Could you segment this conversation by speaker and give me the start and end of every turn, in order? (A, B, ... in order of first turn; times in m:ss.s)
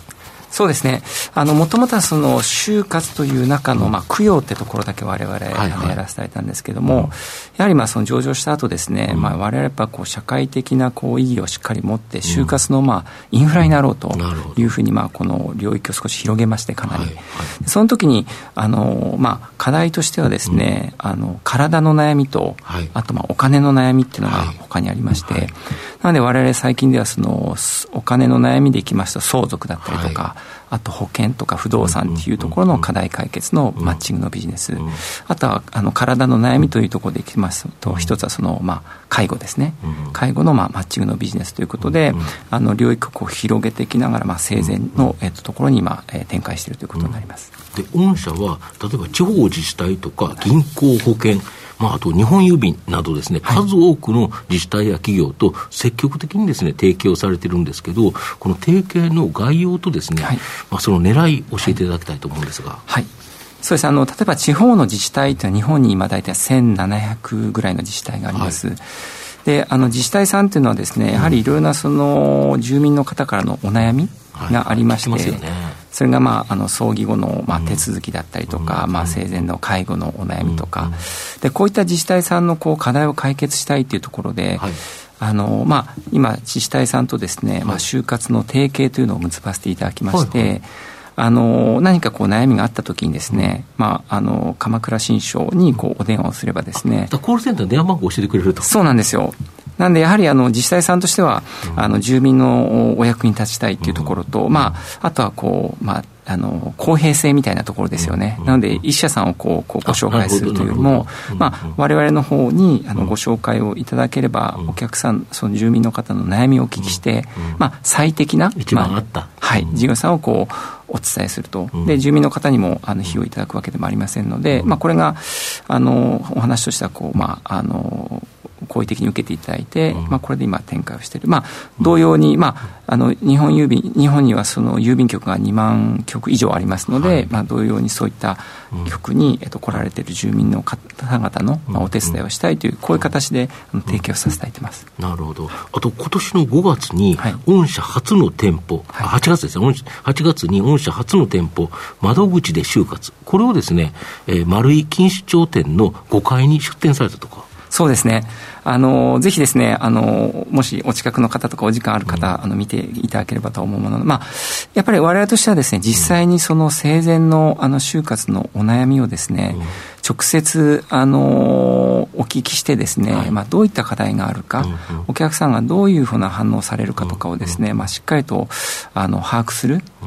0:00.5-0:47.5 A
0:05.5-0:06.0 B
0:09.1-0:09.4 B
0:12.2-0:12.6 B
0:14.1-0:14.7 B
0:16.9-0:17.5 B
0:22.7-0:22.9 B
0:24.3-0:24.6 B
0:29.8-0:30.2 B
0:31.8-0:32.9 B
0:37.9-0:38.1 B
0:39.9-0:40.2 B
0:41.9-0:42.2 B
0:47.7-1:02.8 B
1:03.6-1:08.8 A
1:08.3-1:08.6 B
1:09.4-1:24.7 A
1:14.4-1:15.8 B
1:17.5-1:17.8 B
1:18.5-1:19.4 B
1:20.4-1:21.0 B
1:25.2-1:37.1 A
1:30.1-1:30.5 B
1:37.1-1:38.7 B
1:38.6-2:24.9 A
1:43.8-1:44.7 B
1:48.0-1:48.8 B
1:49.9-1:51.7 B
1:56.8-1:57.6 B
1:58.6-1:59.8 B
2:16.9-2:17.3 B
2:21.7-2:22.2 B
2:25.0-2:37.5 B
2:37.7-2:59.9 A
2:42.1-2:42.3 B
2:49.5-2:49.8 B
2:53.1-2:53.4 B
2:54.6-2:55.1 B
2:57.0-2:57.6 B